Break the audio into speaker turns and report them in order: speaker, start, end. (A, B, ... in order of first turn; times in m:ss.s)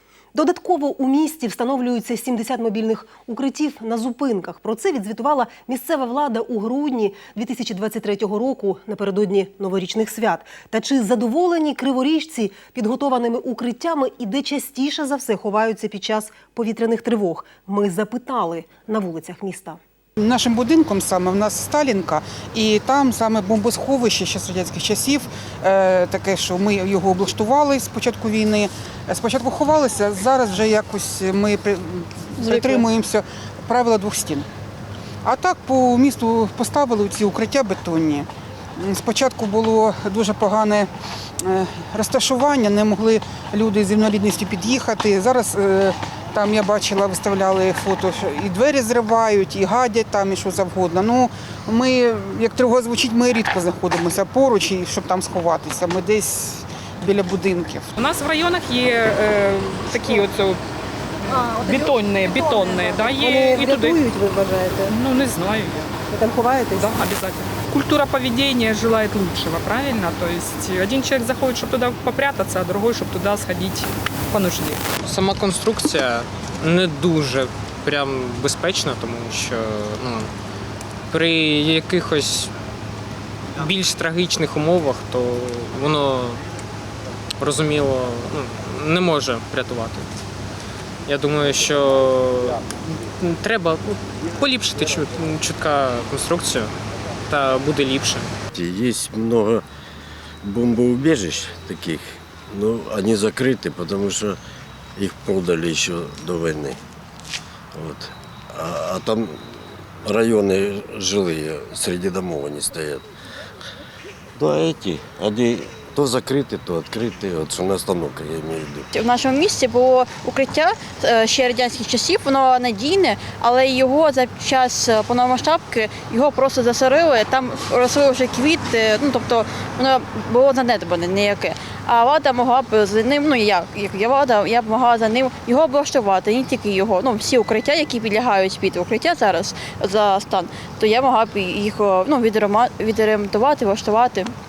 0:00.3-0:19.8 A
0:20.2-0:34.5 B
0:32.4-0:32.8 C
0:35.2-0:40.9 B
0:41.4-0:57.9 B
0:58.0-1:00.6 D
1:01.4-1:01.8 A
1:01.6-1:04.0 D
1:02.5-1:04.9 A
1:04.9-1:05.9 D
1:06.1-1:06.9 A
1:06.8-1:14.8 D
1:15.0-1:20.3 E
1:21.1-1:22.5 E
1:23.6-1:26.4 E
1:27.4-1:30.1 E
1:31.0-1:36.7 E
1:37.3-1:38.3 E
1:38.5-1:39.6 F
1:40.4-1:44.4 F
1:45.0-1:46.8 F
1:47.7-1:49.4 F
1:50.0-1:53.0 F
1:54.4-1:58.9 F
1:58.9-2:24.3 C